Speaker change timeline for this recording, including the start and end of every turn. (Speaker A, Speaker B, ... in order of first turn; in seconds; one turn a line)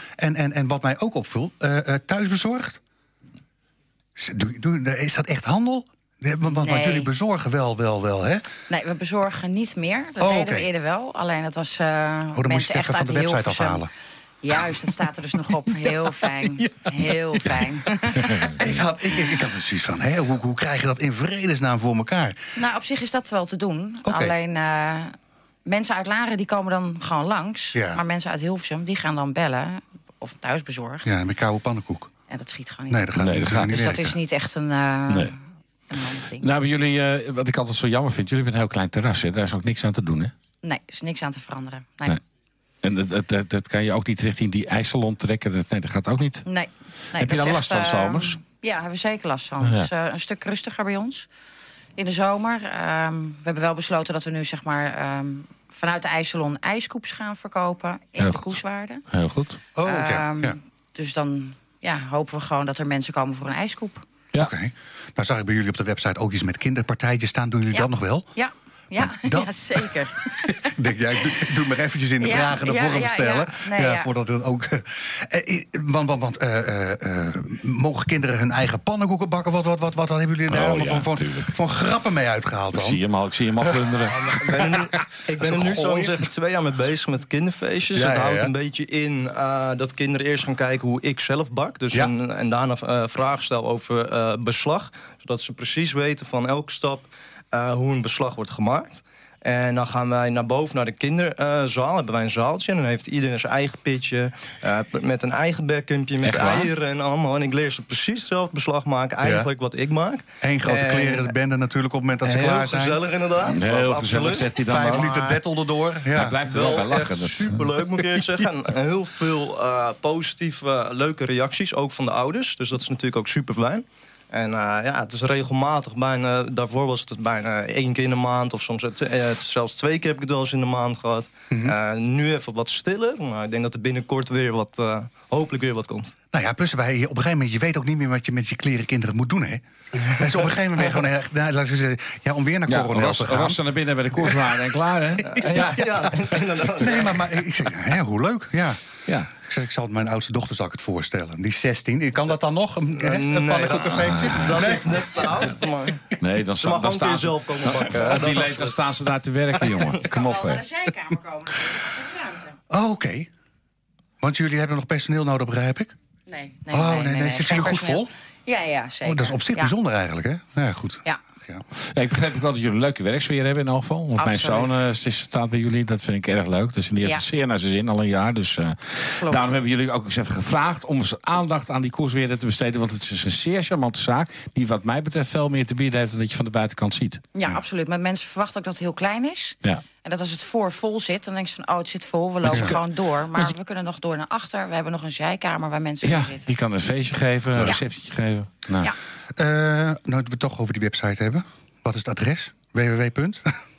Speaker A: 0.2-2.8
Speaker A: 4.2-8.5
Speaker B: 6.6-7.1
Speaker B: 8.7-13.8
Speaker A: 10.2-10.7
Speaker A: 12.3-13.9
Speaker B: 14.4-18.6
Speaker A: 18.4-22.4
Speaker B: 22.6-31.1
Speaker A: 24.0-24.3
Speaker A: 27.7-28.0
Speaker A: 31.0-32.1
Speaker B: 32.3-35.4
Speaker A: 32.9-34.1
Speaker C: 33.2-33.8
Speaker B: 35.9-36.5
Speaker C: 36.4-40.3
Speaker B: 40.6-42.2
Speaker C: 42.8-46.4
Speaker B: 46.5-51.3
Speaker C: 47.1-48.4
Speaker C: 49.6-49.9
Speaker B: 52.0-59.0
Speaker C: 58.2-58.5
Speaker C: 59.1-59.6
Speaker A: 59.7-60.6
Speaker B: 59.8-64.0
Speaker A: 64.4-68.3
Speaker B: 67.7-70.7
Speaker A: 69.0-69.5
Speaker A: 70.5-83.0
Speaker B: 72.2-74.1
Speaker C: 80.5-81.5
Speaker C: 82.7-84.8
Speaker A: 83.6-83.9
Speaker D: 84.2-111.3
Speaker A: 85.4-86.2
Speaker A: 87.9-88.5
Speaker C: 106.2-106.7
Speaker A: 109.2-109.5
Speaker A: 110.4-113.0
Speaker D: 112.2-115.1
Speaker C: 113.4-115.4
Speaker A: 114.5-116.5
Speaker C: 116.1-117.6
Speaker D: 116.4-136.1
Speaker A: 136.3-143.6
Speaker C: 142.7-146.2
Speaker A: 144.2-144.5
Speaker D: 145.2-147.2
Speaker A: 145.5-145.8
Speaker A: 146.8-155.5
Speaker D: 152.9-158.8
Speaker C: 154.1-154.4
Speaker C: 156.2-160.6
Speaker B: 160.0-162.5
Speaker A: 162.7-163.3
Speaker A: 164.2-165.9
Speaker B: 166.3-169.7
Speaker A: 166.7-168.1
Speaker A: 169.0-171.6
Speaker C: 171.9-187.2
Speaker B: 174.2-174.8
Speaker B: 177.0-177.2
Speaker B: 179.2-179.6
Speaker B: 187.3-196.5
Speaker C: 192.4-192.8
Speaker C: 196.0-198.9
Speaker A: 199.3-203.5